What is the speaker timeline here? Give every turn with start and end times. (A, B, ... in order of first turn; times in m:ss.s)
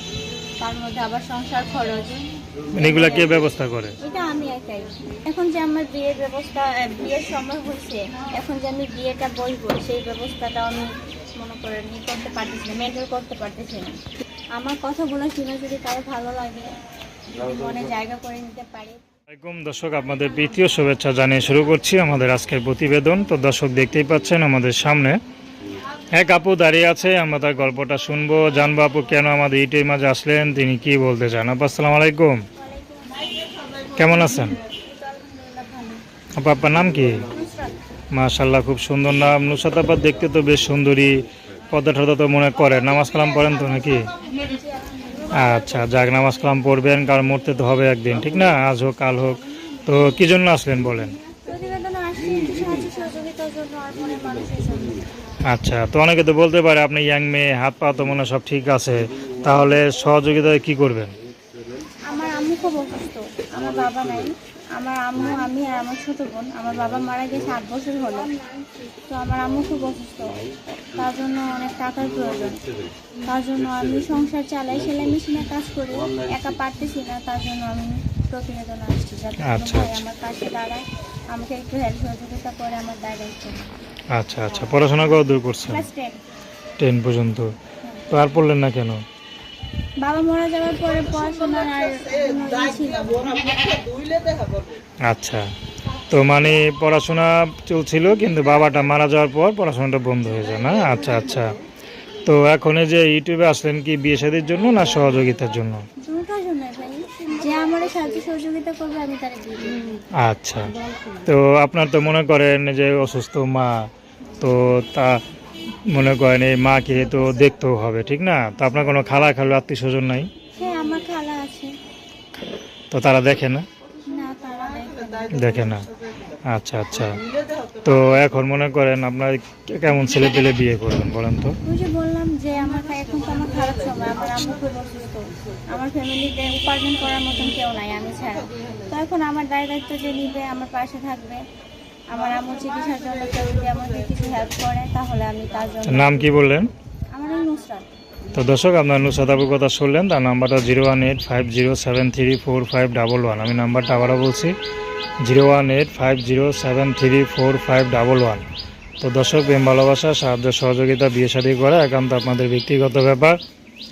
0:00.6-0:03.4 A
0:02.8-0:04.0 B
0:04.0-0:14.0 A
0:14.6-0:16.7 A
0:17.3-0:19.0 A
0:19.3-0:25.2 B
0:26.1-0:32.4 B
0:32.6-0:33.8 A
0:33.9-0:34.6 B
0:34.5-0:36.0 A
0:36.4-0:37.2 B
0:37.3-0:37.8 A
0:38.1-0:44.1 B
0:44.1-0:46.4 A
0:45.3-0:51.2 B
0:51.4-0:55.1 A
0:55.4-1:01.1 B
1:02.0-1:08.3 A
1:09.1-1:12.6 A
1:13.2-1:23.7 A
1:19.4-1:20.0 B
1:24.1-1:25.8 B
1:25.7-1:26.2 A
1:26.8-1:27.5 B
1:28.1-1:29.0 B
1:30.0-1:33.6 A
1:35.0-1:35.4 B
1:36.1-1:41.6 B
1:42.2-1:45.8 B
1:46.0-1:50.0 A
1:50.2-1:50.7 B
1:51.2-1:55.2 B
1:55.8-2:00.3 B
2:00.5-2:01.7 A
2:02.9-2:03.6 B
2:04.1-2:05.8 A
2:05.3-2:05.9 B
2:06.5-2:07.2 B
2:07.8-2:11.6 B
2:11.6-2:21.4 A
2:22.1-2:26.2 A
2:25.8-2:26.7 B
2:27.1-2:27.8 A
2:28.3-2:34.5 B
2:35.2-2:38.4 B
2:39.0-2:43.4 B